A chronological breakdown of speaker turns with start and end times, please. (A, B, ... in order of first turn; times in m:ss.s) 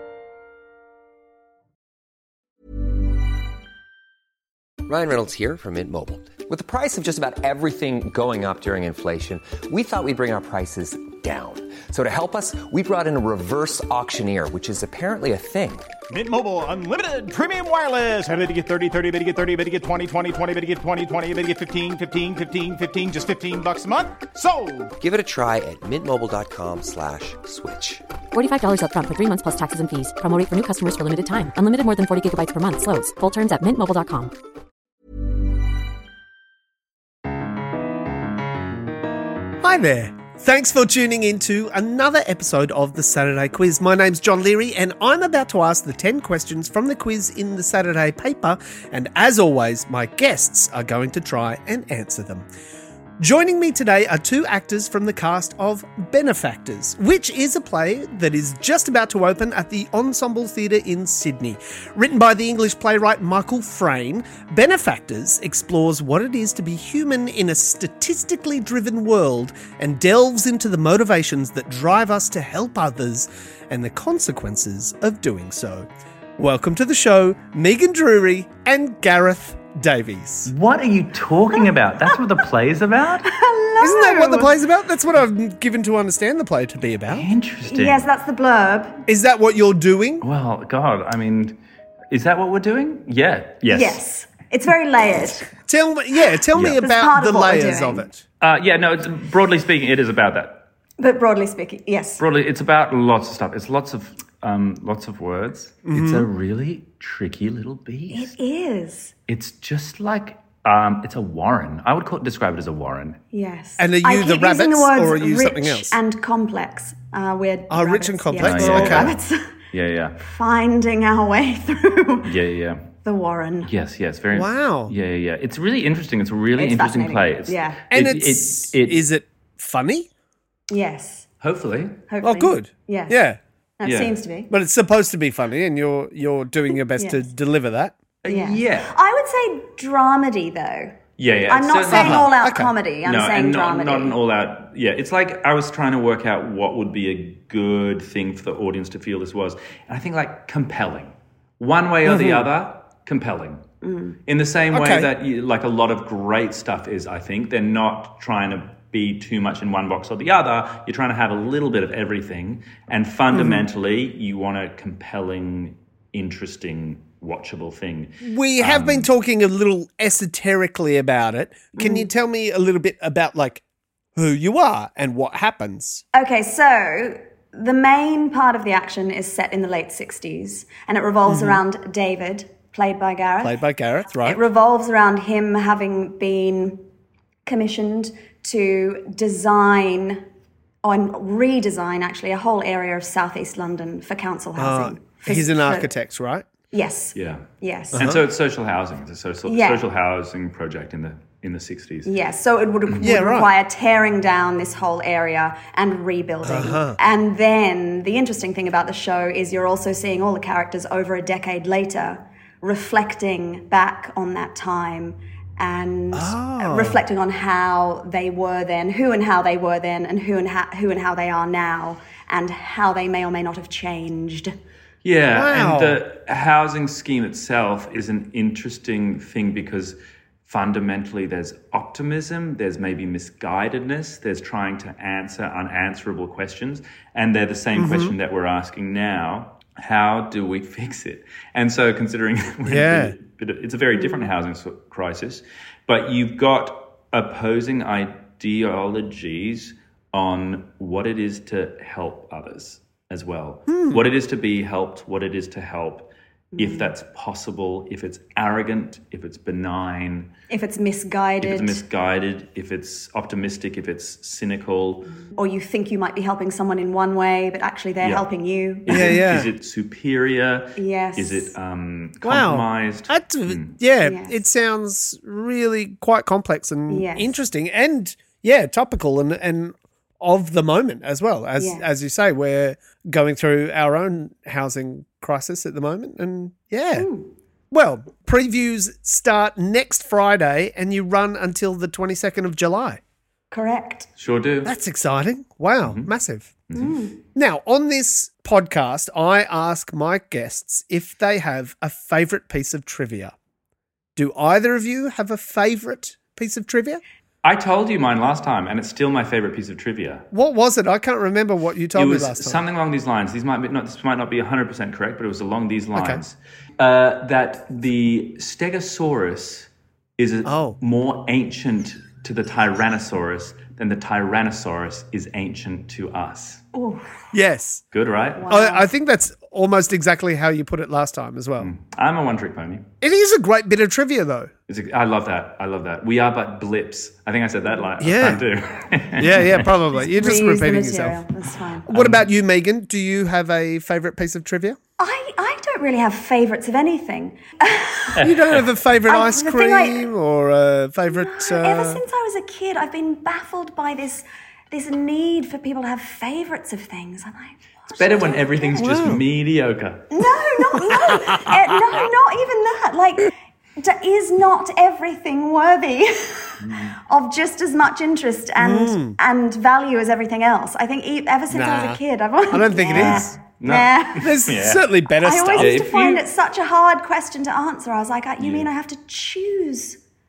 0:04.9-0:15.9 A
0:16.1-0:24.9 B
0:25.0-0:28.0 A
0:28.3-0:34.3 C
0:39.6-0:52.5 D
0:53.2-1:20.5 D
1:20.4-1:23.3 E
1:21.6-1:22.2 F
1:23.3-1:24.5 F
1:23.8-1:27.3 D
1:27.1-1:28.1 E
1:27.6-1:29.0 F
1:29.1-1:30.2 D
1:30.2-1:31.6 E
1:32.1-1:34.0 E
1:33.7-1:35.5 F
1:35.7-1:38.2 D
1:36.5-1:36.8 E
1:36.8-1:38.1 F
1:38.4-1:40.7 E
1:41.0-1:42.2 F
1:42.2-1:48.4 E
1:45.8-1:46.3 D
1:48.1-1:49.1 F
1:49.3-1:53.2 E
1:53.3-1:59.5 F
1:53.8-1:56.0 D
1:57.7-1:59.1 D
1:58.4-1:59.2 E
1:59.7-2:00.2 E
2:00.2-2:02.3 F
2:02.2-2:02.9 E
2:03.0-2:03.7 F
2:03.6-2:09.0 E
2:04.3-2:04.9 D
2:06.6-2:07.8 F
2:07.9-2:10.1 D
2:10.7-2:11.3 F
2:11.4-2:12.0 E
2:12.1-2:13.2 F
2:12.2-2:13.4 D
2:13.8-2:14.5 F
2:13.8-2:14.2 E
2:14.5-2:18.0 D
2:17.0-2:17.2 F
2:18.2-2:18.9 E
2:18.3-2:21.0 F
2:21.2-2:22.4 E
2:21.5-2:24.2 F
2:21.9-2:22.7 D
2:23.0-2:33.6 E
2:32.0-2:32.5 D
2:33.8-2:34.2 F
2:34.3-2:49.1 E
2:34.7-2:35.1 D
2:43.3-2:43.7 D
2:48.2-2:53.6 D
2:51.8-2:52.1 F
2:54.2-2:56.0 D
2:56.1-3:03.6 F
3:01.2-3:01.6 D
3:03.4-3:04.4 D
3:04.1-3:06.8 F
3:07.5-3:10.2 F
3:10.8-3:15.9 F
3:14.6-3:16.5 D
3:16.7-3:18.1 F
3:17.2-3:22.1 E
3:19.5-3:19.8 F
3:22.0-3:44.5 F
3:23.0-3:23.5 D
3:26.4-3:27.0 D
3:36.1-3:37.0 D
3:45.0-4:20.3 E
3:45.3-3:46.0 D
3:57.7-3:58.2 D
4:02.6-4:03.2 D
4:13.7-4:14.0 D
4:16.6-4:16.9 F
4:20.5-4:21.8 F
4:21.4-4:25.1 E
4:25.3-4:29.3 F
4:28.0-4:28.3 E
4:28.8-4:33.7 E
4:28.9-4:29.5 D
4:30.8-4:31.5 F
4:32.2-4:47.1 D
4:34.0-4:34.3 F
4:36.9-4:37.3 F
4:41.6-4:41.8 F
4:47.0-4:47.3 F
4:47.7-4:53.0 D
4:53.5-4:54.1 F
4:54.2-4:54.7 E
4:54.6-4:56.6 D
4:55.8-4:56.1 E
4:56.7-4:57.0 E
4:56.7-4:57.2 F
4:57.4-5:03.3 D
5:04.2-5:07.0 D
5:07.4-5:10.2 E
5:10.3-5:12.6 D
5:12.0-5:26.6 E
5:15.9-5:16.2 D
5:20.4-5:20.8 D
5:26.7-5:27.1 F
5:27.3-5:27.8 D
5:27.9-5:28.5 E
5:28.4-5:28.9 F
5:28.5-5:31.7 D
5:31.6-5:32.9 E
5:33.0-5:34.5 D
5:34.7-5:39.7 E
5:38.0-5:38.4 D
5:39.2-5:41.2 D
5:40.0-5:41.9 F
5:41.9-5:44.8 D
5:41.9-5:42.2 E
5:45.0-5:48.2 F
5:48.2-5:48.6 E
5:48.2-5:52.0 D
5:49.1-5:50.1 F
5:51.1-5:58.8 F
5:58.0-6:00.1 E
5:58.8-5:59.2 D
6:00.1-6:14.4 F
6:00.8-6:01.5 D
6:06.6-6:07.0 E
6:08.6-6:09.2 D
6:11.5-6:13.3 D
6:12.9-6:14.9 E
6:14.2-6:15.8 D
6:15.2-6:20.0 F
6:15.6-6:16.2 E
6:18.4-6:18.7 E